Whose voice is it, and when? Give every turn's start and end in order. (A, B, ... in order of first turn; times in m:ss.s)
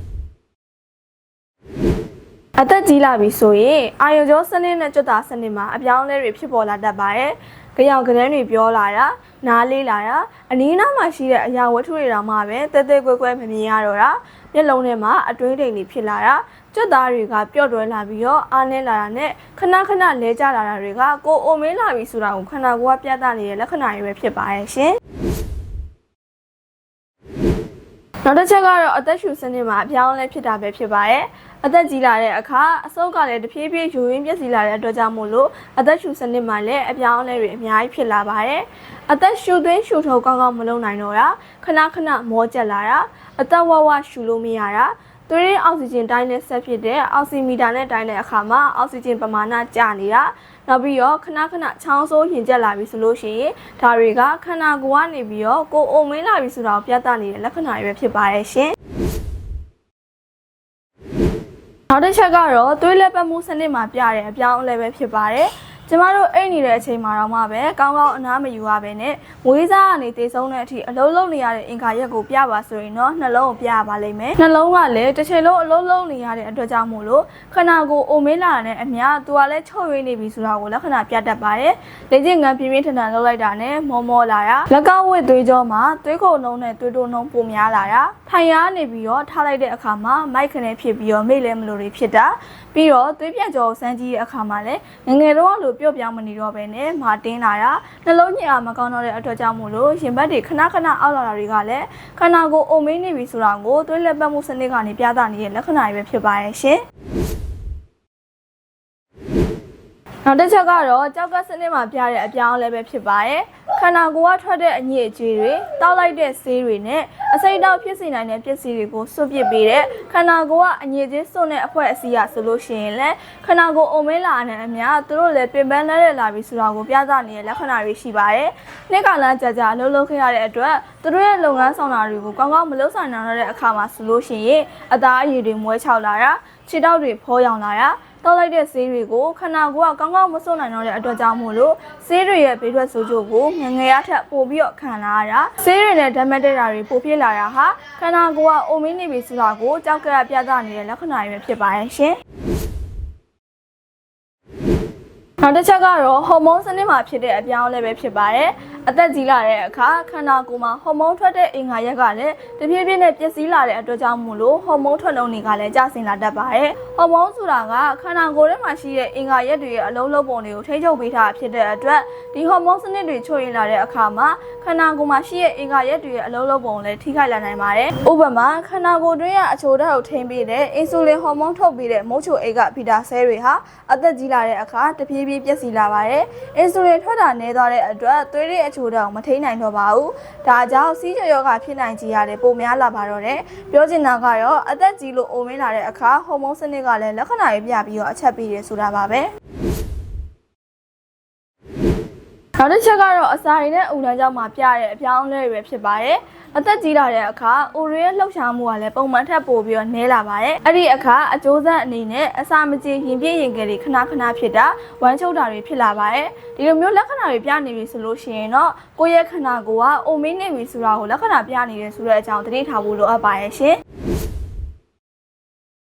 0:02.6-0:25.0 A
0:28.2-0:58.7 A
1:01.9-1:46.8 A
1:50.2-2:32.2 A
2:35.4-3:19.3 A
3:22.6-3:43.8 A